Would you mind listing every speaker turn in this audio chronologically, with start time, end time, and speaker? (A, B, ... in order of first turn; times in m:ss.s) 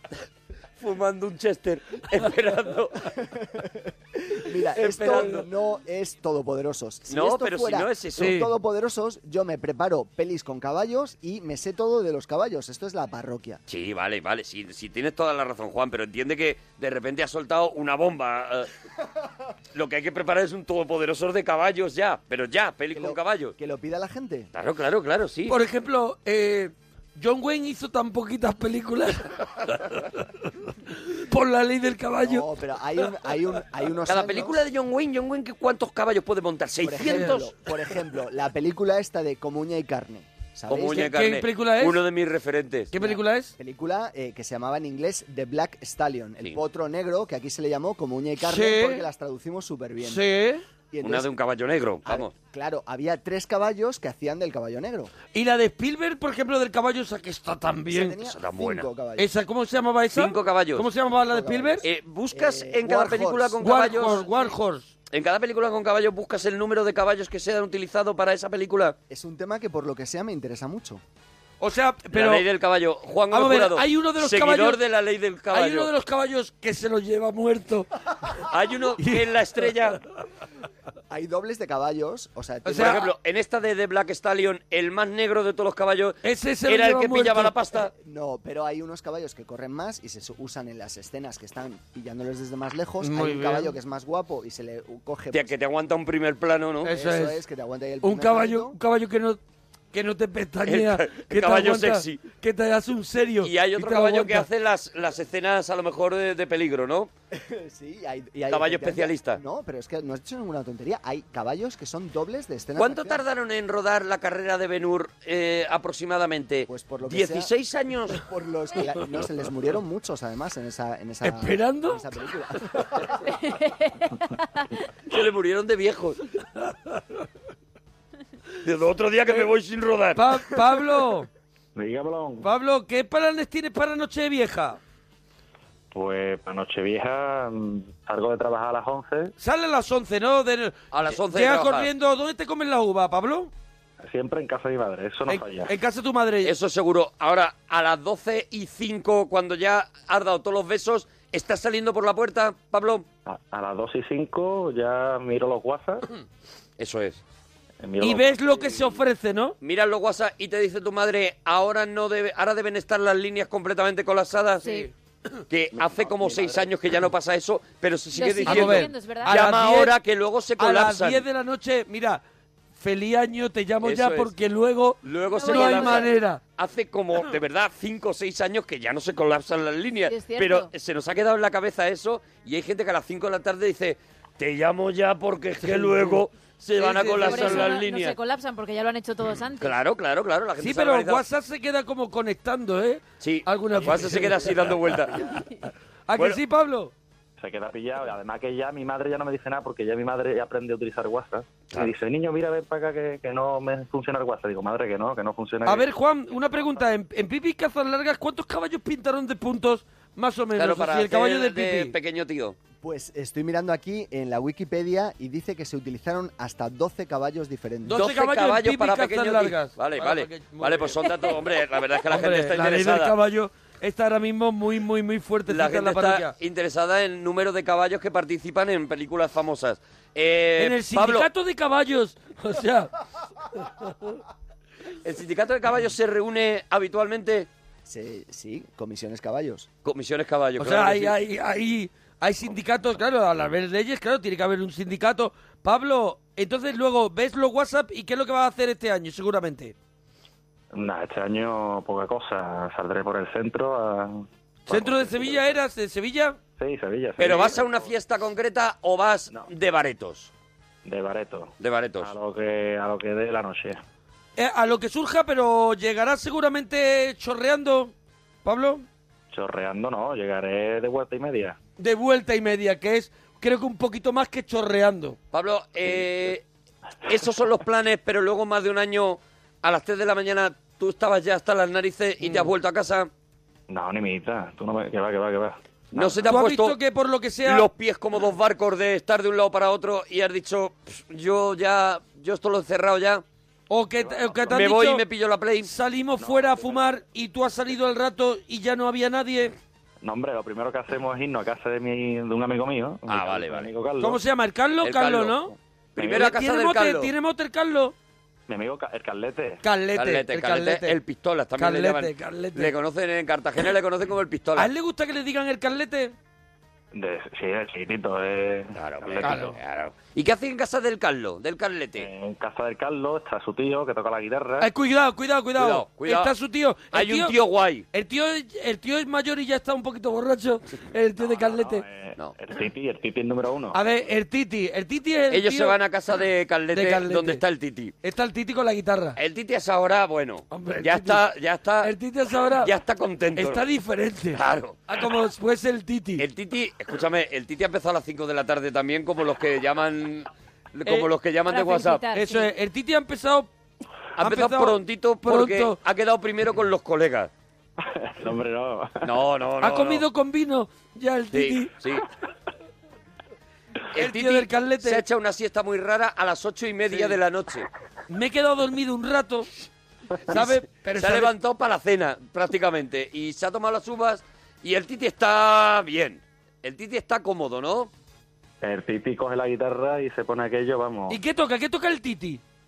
0:00.8-0:03.0 A
0:03.2-0:13.6 B
0:04.8-0:05.4 A
0:04.8-0:05.4 C
0:07.1-0:08.4 A
0:08.2-0:08.5 C
0:13.7-0:18.7 A
0:19.7-0:23.5 A
0:22.9-0:24.5 B
0:24.5-0:25.6 A
0:25.5-0:30.2 C
0:30.9-0:32.4 C
0:32.2-0:34.6 B
0:34.0-0:37.5 A
0:36.8-0:41.1 B
0:37.0-0:37.4 C
0:40.7-0:42.9 A
0:40.9-0:42.0 C
0:42.9-0:43.5 C
0:43.0-0:50.2 B
0:48.4-0:49.0 C
0:50.0-0:50.6 C
0:50.9-0:51.3 B
0:51.0-0:52.3 A
0:52.0-0:55.1 B
0:55.3-0:58.2 C
0:57.9-0:59.3 B
0:58.2-0:58.9 A
0:59.2-1:01.8 C
1:00.1-1:00.9 A
1:01.2-1:03.6 B
1:01.8-1:04.3 A
1:03.6-1:04.9 C
1:05.1-1:09.0 A
1:09.1-1:11.0 B
1:11.6-1:12.4 C
1:12.1-1:15.9 A
1:13.3-1:14.8 C
1:15.5-1:17.9 C
1:18.5-1:20.0 A
1:21.1-1:23.1 B
1:22.6-1:23.0 C
1:22.8-1:27.9 A
1:26.2-1:27.5 C
1:27.9-1:35.5 B
1:33.0-1:33.7 C
1:35.3-1:36.9 A
1:36.8-1:37.4 C
1:36.9-1:38.8 B
1:38.0-1:39.4 C
1:39.9-1:44.5 C
1:40.6-1:42.2 A
1:43.4-1:47.1 A
1:47.3-1:53.2 B
1:48.5-1:49.4 A
1:52.8-1:58.2 A
1:56.7-1:57.5 B
1:58.1-2:03.2 B
2:01.2-2:02.0 C
2:03.4-2:04.6 D
2:05.1-2:06.2 A
2:08.6-2:10.2 A
2:10.2-2:11.3 C
2:11.8-2:12.5 E
2:12.4-2:14.8 C
2:15.9-2:19.3 E
2:19.4-2:23.5 C
2:20.9-2:21.9 A
2:24.0-2:25.7 E
2:25.3-2:26.5 C
2:26.4-2:33.0 A
2:33.3-2:36.0 E
2:36.8-2:37.2 A
2:37.8-2:39.0 E
2:38.0-2:39.5 C
2:39.6-2:44.7 A
2:44.6-2:44.9 D
2:45.5-2:51.2 A
2:45.8-2:46.7 E
2:48.1-2:49.4 D
2:48.4-2:50.0 C
2:50.6-2:52.2 C
2:52.8-2:56.4 C
2:53.8-2:54.3 A
2:55.0-3:08.2 A
2:55.3-2:56.1 D
3:00.1-3:00.7 D
3:05.6-3:06.2 C
3:06.8-3:07.8 C
3:07.2-3:09.8 D
3:09.6-3:11.2 A
3:10.6-3:14.6 C
3:13.2-3:15.3 A
3:16.1-3:16.9 C
3:17.4-3:25.9 E
3:25.6-3:31.9 C
3:30.6-3:32.6 A
3:32.8-3:38.0 B
3:37.8-3:41.0 C
3:37.9-3:43.1 A
3:42.1-3:46.3 C
3:45.5-3:51.3 A
3:50.6-3:52.9 C
3:55.0-3:57.5 A
3:57.8-3:59.7 B
3:59.8-4:01.2 A
4:00.6-4:09.7 C
4:10.7-4:15.6 E
4:14.7-4:16.4 C
4:16.6-4:17.9 E
4:17.2-4:20.3 A
4:20.8-4:23.8 E
4:21.6-4:22.1 A
4:24.4-4:27.9 C
4:28.4-4:28.8 C
4:29.3-4:31.6 E
4:31.8-4:35.2 C
4:35.3-4:36.4 A
4:37.0-4:43.1 A
4:42.2-4:42.5 C
4:43.7-4:46.3 E
4:45.9-4:46.8 A
4:46.2-4:47.6 C
4:47.4-4:53.2 A
4:53.7-4:55.0 C
4:54.0-4:54.7 E
4:54.5-4:55.7 A
4:55.6-4:59.5 C
4:56.2-4:57.0 E
5:00.0-5:04.2 E
5:03.1-5:03.7 A
5:04.0-5:05.5 C
5:04.8-5:05.4 A
5:06.0-5:07.1 A
5:06.0-5:06.3 E
5:06.1-5:07.9 C
5:08.5-5:09.6 E
5:09.6-5:11.0 C
5:09.9-5:14.7 A
5:11.6-5:12.7 C
5:14.6-5:16.1 C
5:16.9-5:19.5 E
5:18.7-5:22.1 A
5:19.2-5:19.6 C
5:22.0-5:24.7 E
5:24.6-5:27.3 C
5:25.6-5:26.3 A
5:26.9-5:27.8 A
5:27.9-5:31.8 C
5:31.2-5:33.8 E
5:33.7-5:35.8 C
5:35.3-5:37.9 A
5:36.7-5:37.4 C
5:38.0-5:39.2 C
5:39.2-5:41.9 A
5:40.5-5:41.2 C
5:41.8-5:42.7 C
5:42.6-5:43.6 A
5:43.4-5:46.2 C
5:44.3-5:44.8 A
5:46.2-5:52.0 A
5:51.5-5:52.5 D
5:52.1-5:53.5 C
5:54.2-5:57.3 A
5:54.2-5:55.8 C
5:57.8-5:59.1 E
5:59.0-6:00.0 A
5:59.6-6:01.7 C
6:01.3-6:02.0 A
6:03.9-6:07.7 A
6:03.9-6:05.0 C
6:06.9-6:07.2 C
6:08.1-6:09.5 C
6:10.3-6:11.3 C
6:10.9-6:17.9 A
6:18.6-6:21.2 E
6:21.1-6:22.4 C